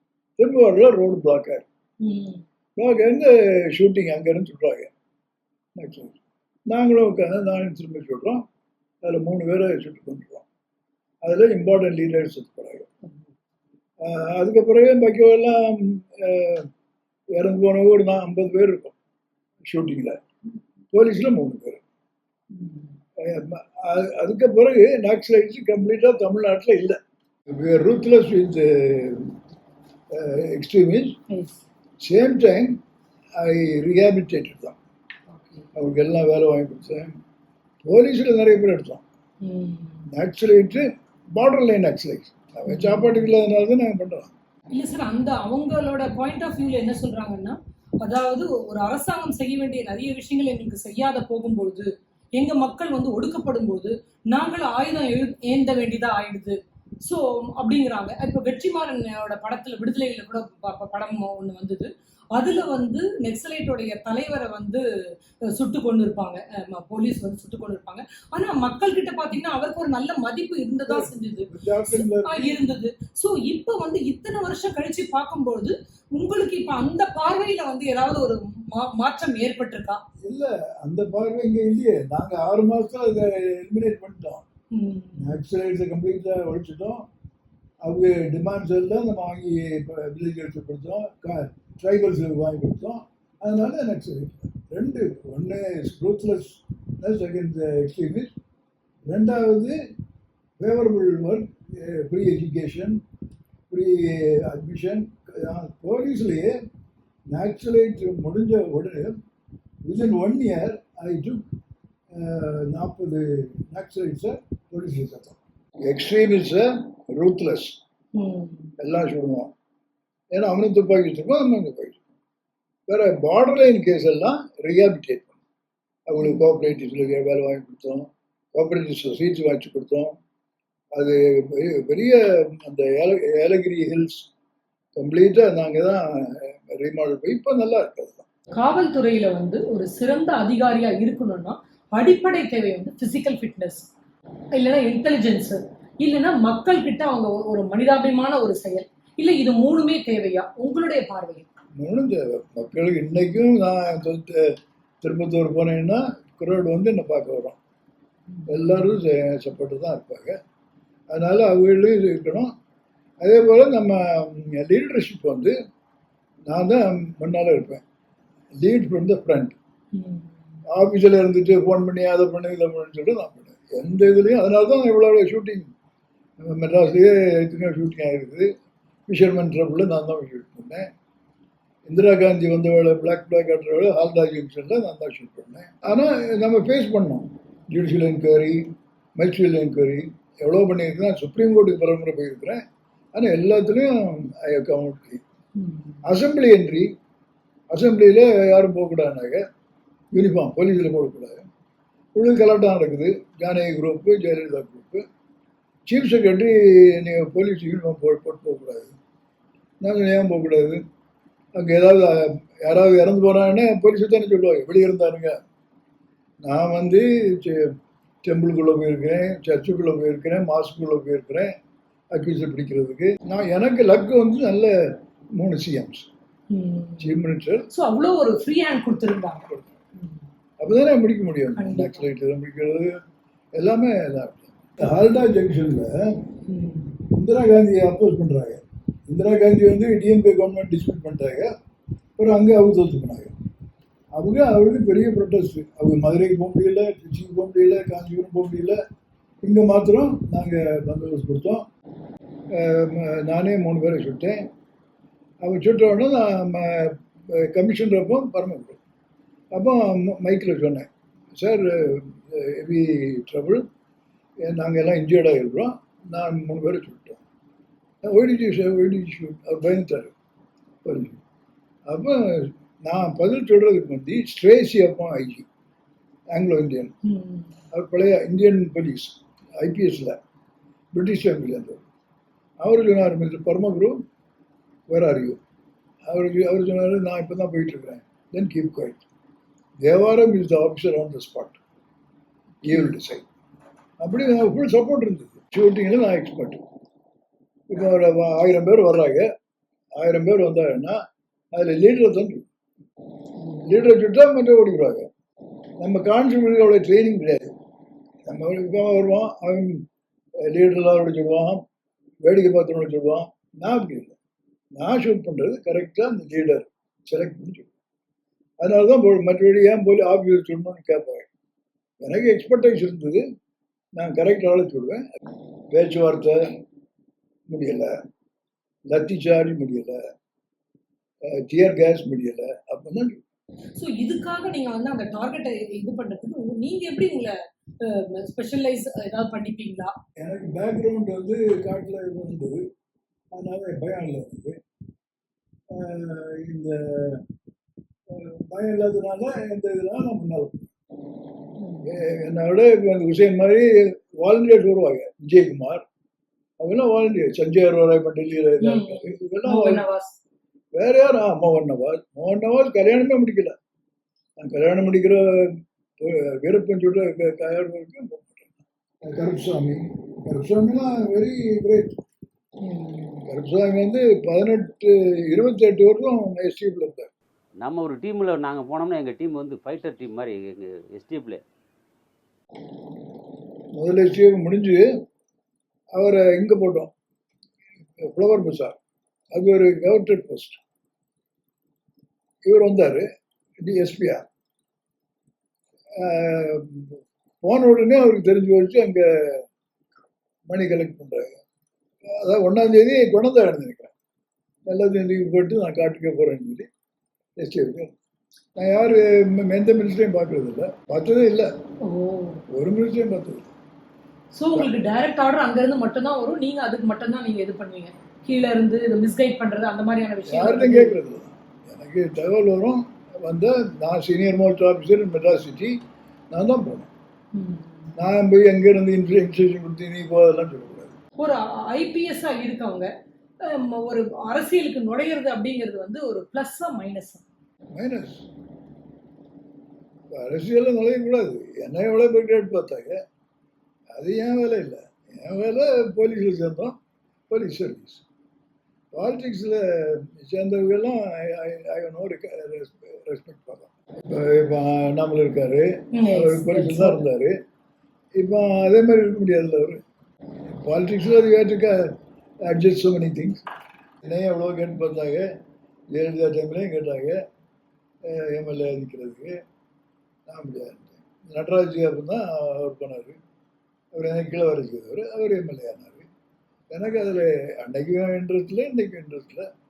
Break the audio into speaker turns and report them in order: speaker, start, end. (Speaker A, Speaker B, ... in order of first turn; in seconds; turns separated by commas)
Speaker A: 0.4-1.6, Speaker B: 2.0-2.4, Speaker A: 2.8-4.9, Speaker A: 5.8-6.2, Speaker A: 6.7-8.4, Speaker A: 9.0-10.5, Speaker A: 11.2-12.9, Speaker A: 14.0-16.7, Speaker A: 17.3-18.9, Speaker A: 19.6-20.2, Speaker A: 20.9-21.8, Speaker B: 22.5-22.9, Speaker A: 23.2-27.0, Speaker A: 27.5-29.4, Speaker A: 30.1-31.2, Speaker B: 31.3-31.6, Speaker A: 32.0-32.8, Speaker A: 33.4-34.8, Speaker B: 35.4-35.6, Speaker A: 35.8-37.1, Speaker A: 37.8-39.0, Speaker B: 39.4-40.1, Speaker A: 40.1-44.3, Speaker B: 42.7-43.3, Speaker B: 44.8-64.8, Speaker B: 65.5-80.0, Speaker A: 70.9-72.6, Speaker A: 80.2-84.5, Speaker B: 84.7-85.3, Speaker A: 85.2-87.1, Speaker A: 87.8-98.3, Speaker A: 99.1-99.8, Speaker A: 100.6-103.0, Speaker A: 103.7-106.5, Speaker A: 107.3-109.2, Speaker A: 109.8-111.4, Speaker A: 112.1-117.8, Speaker B: 118.1-118.7, Speaker A: 118.8-119.5, Speaker A: 120.3-122.0, Speaker A: 122.9-125.4, Speaker A: 126.1-130.2, Speaker A: 130.9-134.3, Speaker A: 134.9-138.2, Speaker B: 138.6-143.9, Speaker B: 144.6-151.5, Speaker A: 151.8-157.6, Speaker A: 158.5-160.4, Speaker A: 161.1-162.5, Speaker A: 163.2-165.5, Speaker A: 166.5-167.8, Speaker A: 168.6-169.6, Speaker B: 169.9-170.3, Speaker A: 170.7-175.7, Speaker A: 176.4-178.5, Speaker A: 179.1-180.9, Speaker A: 181.8-188.7, Speaker A: 189.2-192.6, Speaker A: 193.1-195.2, Speaker B: 195.6-195.9, Speaker A: 196.0-196.9, Speaker A: 197.7-199.4, Speaker A: 200.1-201.4, Speaker A: 202.1-205.0, Speaker A: 205.9-208.9, Speaker A: 209.8-210.8, Speaker A: 211.6-215.4, Speaker A: 216.4-217.7, Speaker A: 218.2-221.5, Speaker A: 222.1-226.1, Speaker B: 226.5-227.1, Speaker A: 227.0-227.7, Speaker B: 227.7-229.5, Speaker A: 230.6-233.0, Speaker B: 231.6-232.0, Speaker A: 233.6-236.3, Speaker B: 236.5-237.0, Speaker A: 237.0-241.5, Speaker A: 242.2-243.3, Speaker A: 244.1-248.8, Speaker A: 249.4-251.6, Speaker A: 252.5-254.4, Speaker A: 255.4-258.8, Speaker A: 259.5-263.6, Speaker A: 264.4-267.2, Speaker A: 268.1-270.1, Speaker A: 270.8-271.2, Speaker A: 271.9-275.5, Speaker A: 276.3-276.9, Speaker B: 277.0-277.5, Speaker A: 277.7-280.2, Speaker A: 280.9-281.8, Speaker A: 282.6-284.0, Speaker A: 284.9-285.4, Speaker A: 286.1-289.0, Speaker A: 289.8-291.6, Speaker A: 292.6-293.2, Speaker A: 294.0-296.6, Speaker A: 297.7-299.3, Speaker A: 300.0-301.0, Speaker A: 301.5-302.5, Speaker A: 303.5-305.1, Speaker A: 305.8-307.6, Speaker A: 308.2-309.9, Speaker A: 310.4-311.6, Speaker A: 312.2-314.2, Speaker A: 314.8-317.7, Speaker A: 318.6-321.3, Speaker A: 322.0-323.2, Speaker A: 323.9-325.0, Speaker A: 325.7-326.6, Speaker A: 327.5-327.9, Speaker A: 328.9-330.0, Speaker A: 331.2-333.2, Speaker B: 333.8-339.9, Speaker A: 340.2-342.6, Speaker A: 343.3-344.6, Speaker A: 345.7-347.2, Speaker A: 348.1-350.7, Speaker B: 351.6-351.9, Speaker A: 351.8-355.8, Speaker A: 356.6-359.8, Speaker B: 358.6-360.2, Speaker A: 360.7-363.6, Speaker A: 364.4-371.9, Speaker B: 372.6-373.2, Speaker A: 373.3-377.1, Speaker C: 377.6-381.4, Speaker A: 383.7-384.9, Speaker A: 385.9-386.9, Speaker A: 388.0-388.8, Speaker A: 389.3-390.6, Speaker A: 392.4-393.1, Speaker A: 393.6-394.2, Speaker A: 396.0-399.5, Speaker A: 400.5-401.4, Speaker A: 402.1-403.9, Speaker A: 404.7-406.7, Speaker A: 407.4-407.9, Speaker A: 408.6-411.5, Speaker B: 411.8-412.4, Speaker A: 412.5-413.5, Speaker B: 414.3-421.0, Speaker A: 420.3-425.8, Speaker A: 426.3-426.9, Speaker B: 427.4-427.9, Speaker A: 427.9-430.9, Speaker B: 431.2-432.9, Speaker B: 433.4-437.2, Speaker A: 437.7-438.2, Speaker A: 440.1-443.0, Speaker A: 443.9-446.8, Speaker A: 447.3-448.0, Speaker A: 448.9-457.4, Speaker B: 455.9-457.0, Speaker A: 458.2-459.8, Speaker A: 460.5-463.4, Speaker A: 464.0-465.3, Speaker A: 465.9-467.2, Speaker A: 468.0-469.4, Speaker A: 470.3-473.2, Speaker A: 473.9-476.1, Speaker A: 476.7-479.5